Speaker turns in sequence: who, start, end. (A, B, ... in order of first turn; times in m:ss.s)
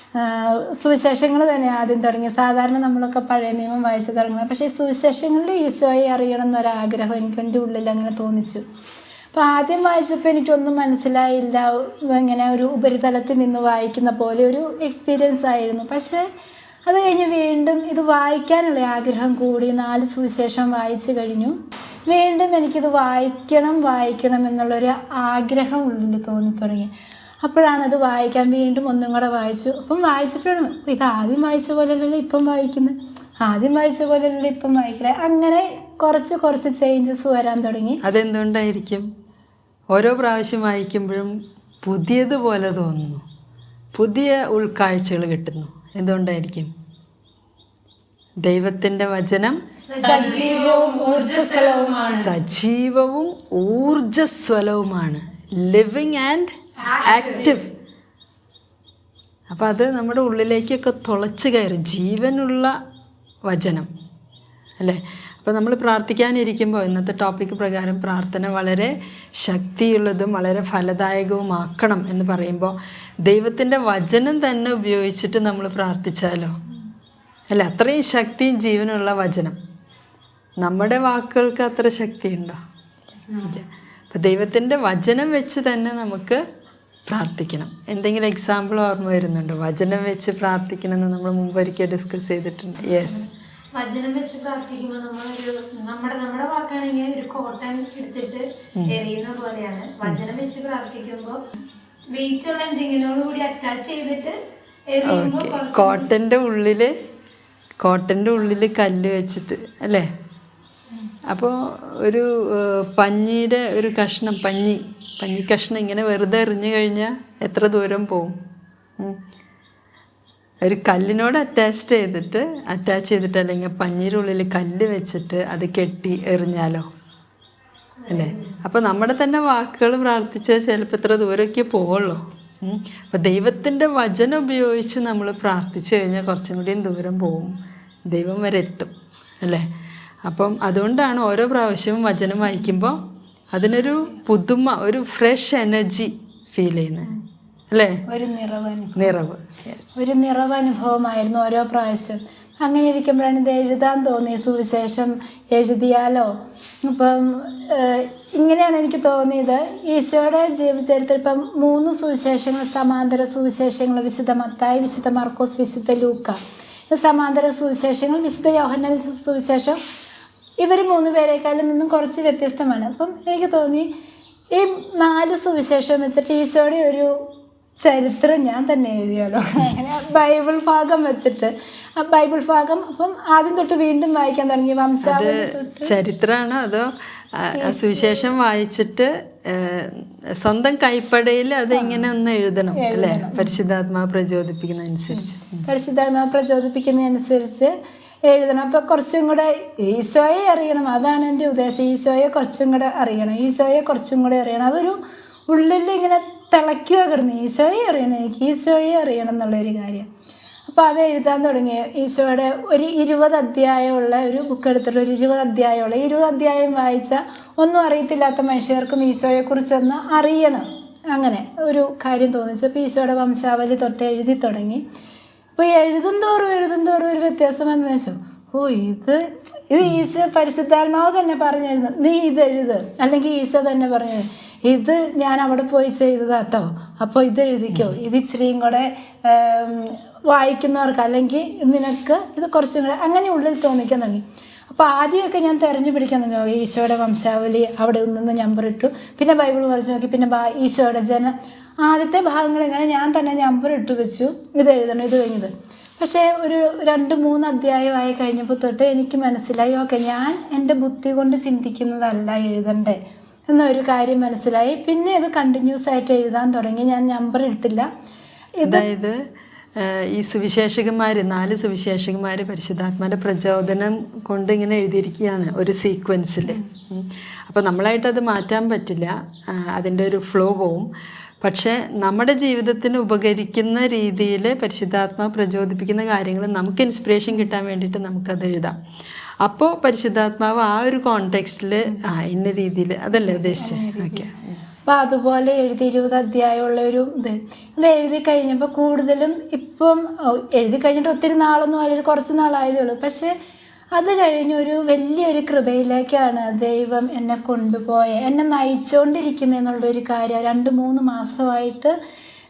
0:00.2-0:08.6 A
0:09.3-0:16.2 A
0:16.8-0:21.6 A
0:22.1-0:38.0 A
0:38.0-0:39.1 B
0:39.9-0:43.2 B
0:43.9-0:46.7 B
0:48.4-0:49.6 B
0:49.9-0:52.3 C
0:50.0-0:52.1 A
0:52.1-0:57.7 B
0:56.9-0:57.5 C
0:59.5-1:02.7 B
1:03.5-1:03.9 B
1:04.8-1:16.6 B
1:17.5-1:19.6 B
1:20.6-1:22.6 B
1:23.4-1:26.4 B
1:27.1-1:33.2 B
1:33.7-1:41.4 C
1:42.1-1:44.4 C
1:44.9-1:46.1 C
1:45.0-1:46.9 B
1:47.8-1:50.1 B
1:51.3-1:58.3 B
2:00.6-2:06.8 B
2:08.0-2:08.6 C
2:08.1-2:17.5 B
2:18.1-2:19.6 B
2:20.2-2:23.0 B
2:23.5-2:27.1 B
2:27.7-2:28.0 B
2:28.1-2:29.2 A
2:29.0-2:30.0 B
2:30.0-2:36.3 A
2:36.8-2:46.4 A
2:46.9-2:49.8 A
2:50.6-2:53.9 A
2:54.5-3:05.9 A
3:05.0-3:15.6 B
3:07.5-3:08.2 A
3:11.7-3:12.1 A
3:12.7-3:13.5 A
3:15.1-3:17.7 A
3:18.2-3:30.1 A
3:30.7-3:44.8 A
3:45.6-4:27.9 A
4:28.6-4:28.8 A
4:28.6-4:29.2 B
4:29.8-4:40.9 B
4:41.4-4:48.8 B
4:49.4-4:54.6 B
4:53.2-4:54.3 A
4:54.8-5:03.3 A
5:03.9-5:11.9 A